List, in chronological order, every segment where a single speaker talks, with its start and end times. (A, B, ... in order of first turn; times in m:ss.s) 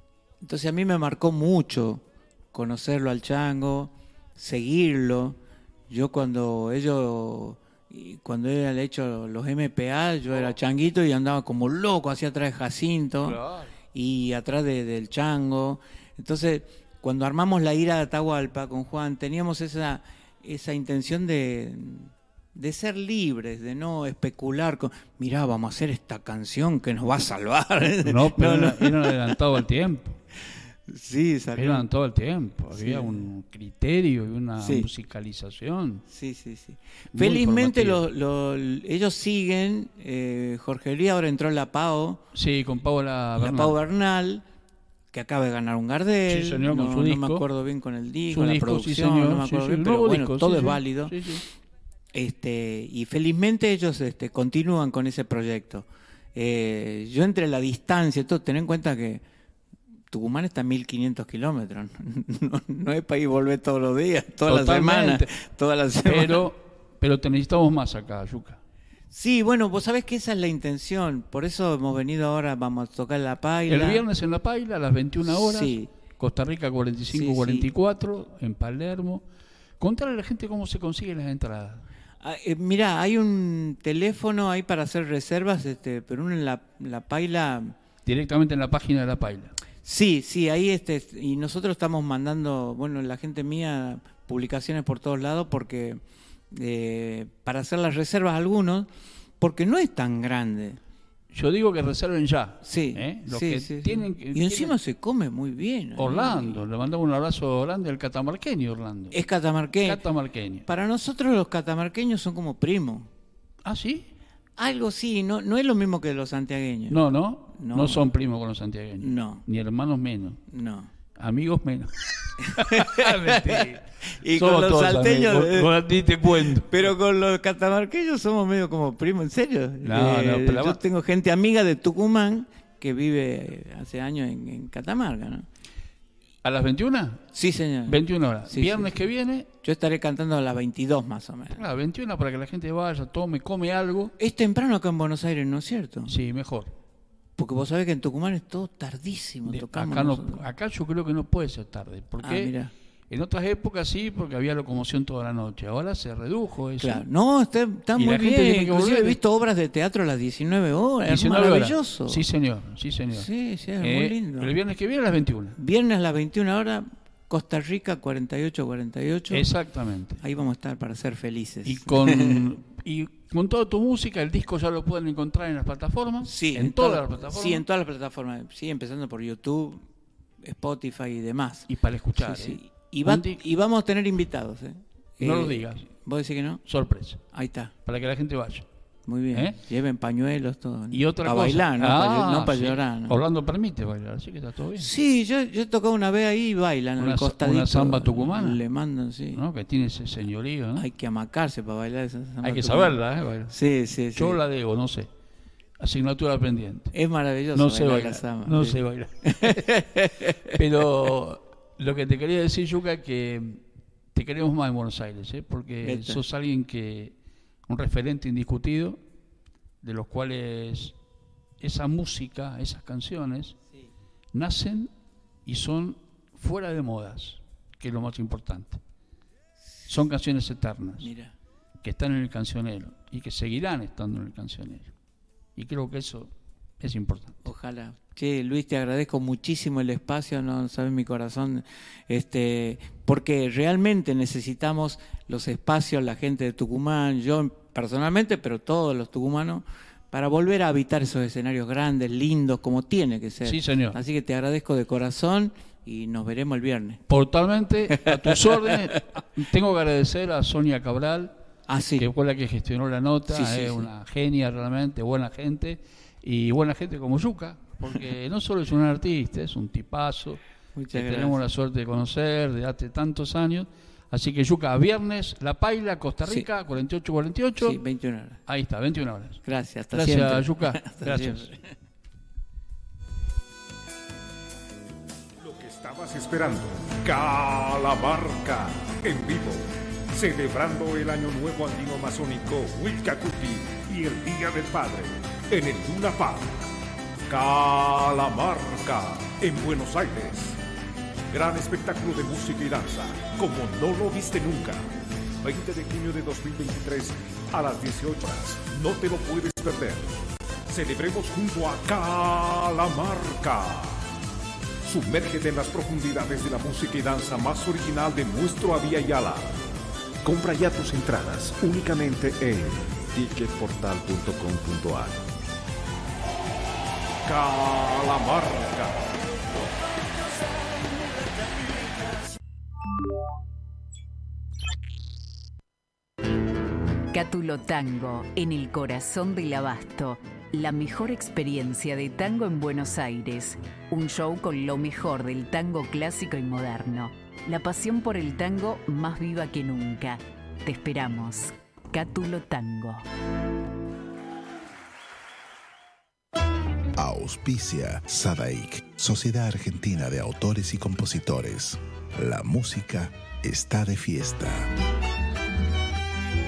0:00.4-0:13.4 A
0:13.2-0:13.8 B
0:13.9-0:29.4 A
0:28.0-0:30.2 B
0:30.9-0:31.9 A
0:31.6-0:36.0 B
0:32.7-0:33.2 A
0:34.6-0:34.9 A
0:36.1-0:42.3 A
0:37.1-0:38.0 B
0:42.3-0:43.8 B
0:43.4-0:44.4 A
0:45.1-0:51.2 A
0:46.3-0:47.4 B
0:48.3-0:51.4 B
0:52.1-0:59.2 A
1:00.1-1:06.5 A
1:04.5-1:05.3 B
1:06.0-1:08.6 B
1:09.1-1:14.0 A
1:13.7-1:19.2 B
1:15.2-1:15.9 A
1:17.1-1:17.7 A
1:19.8-1:21.9 B
1:22.2-1:27.8 A
1:28.1-1:29.6 B
1:29.8-1:36.0 A
1:36.5-1:38.9 A
1:39.4-1:40.8 A
1:41.3-1:44.8 B
1:42.6-1:46.6 A
1:46.0-1:49.2 B
1:49.1-1:50.0 A
1:49.8-1:50.7 B
1:50.7-1:53.1 A
1:53.6-1:54.1 B
1:54.6-1:57.0 A
1:56.9-2:00.4 B
1:57.6-1:58.1 A
1:59.0-1:59.4 A
2:00.5-2:00.9 A
2:01.2-2:06.8 B
2:02.4-2:15.5 A
2:09.8-2:10.8 B
2:16.4-2:17.2 B
2:17.3-2:19.0 A
2:17.8-2:19.5 B
2:19.5-2:21.7 A
2:21.5-2:24.1 B
2:24.2-2:26.1 A
2:26.1-2:26.7 B
2:27.4-2:30.4 A
2:29.5-2:32.6 B
2:32.2-2:32.7 A
2:33.1-2:37.0 B
2:36.8-2:42.2 A
2:38.0-2:39.2 B
2:41.0-2:43.3 B
2:43.1-2:44.5 A
2:43.8-2:45.6 B
2:45.6-2:49.5 A
2:49.3-2:50.2 B
2:50.2-2:52.5 A
2:51.6-2:57.6 B
2:56.2-2:59.9 A
3:00.4-3:06.6 A
3:01.7-3:03.4 B
3:05.2-3:05.9 B
3:06.7-3:07.2 B
3:07.3-3:07.7 A
3:07.8-3:08.7 B
3:09.1-3:13.2 A
3:09.3-3:09.6 B
3:10.9-3:14.9 B
3:14.8-3:19.4 A
3:17.0-3:18.6 B
3:19.3-3:20.9 B
3:20.8-3:24.4 A
3:22.4-3:23.6 B
3:24.1-3:25.1 B
3:25.8-3:27.0 B
3:26.9-3:30.6 A
3:27.5-3:29.7 B
3:30.5-3:37.2 B
3:35.8-3:36.2 A
3:37.7-3:39.0 B
3:39.8-3:41.0 B
3:41.6-3:43.6 B
3:44.3-3:44.9 B
3:45.5-3:48.8 B
3:49.9-3:51.1 B
3:51.0-3:51.3 A
3:51.8-3:54.9 B
3:55.6-3:57.4 B
3:57.4-4:17.0 A
4:13.4-4:14.0 B
4:17.1-4:21.3 B
4:17.9-4:19.0 A
4:21.7-4:22.1 A
4:22.0-4:30.4 B
4:23.3-4:23.9 A
4:30.8-4:31.4 A
4:30.9-4:37.8 B
4:37.6-4:38.4 A
4:38.5-4:41.5 B
4:39.4-4:41.7 A
4:45.4-4:56.7 C
4:57.3-5:00.6 C
5:01.3-5:04.8 C
5:05.4-5:10.1 C
5:10.7-5:14.0 C
5:14.8-5:19.6 C
5:20.2-5:25.3 C
5:27.2-5:29.2 C
5:37.1-5:53.0 D
5:57.0-6:04.7 E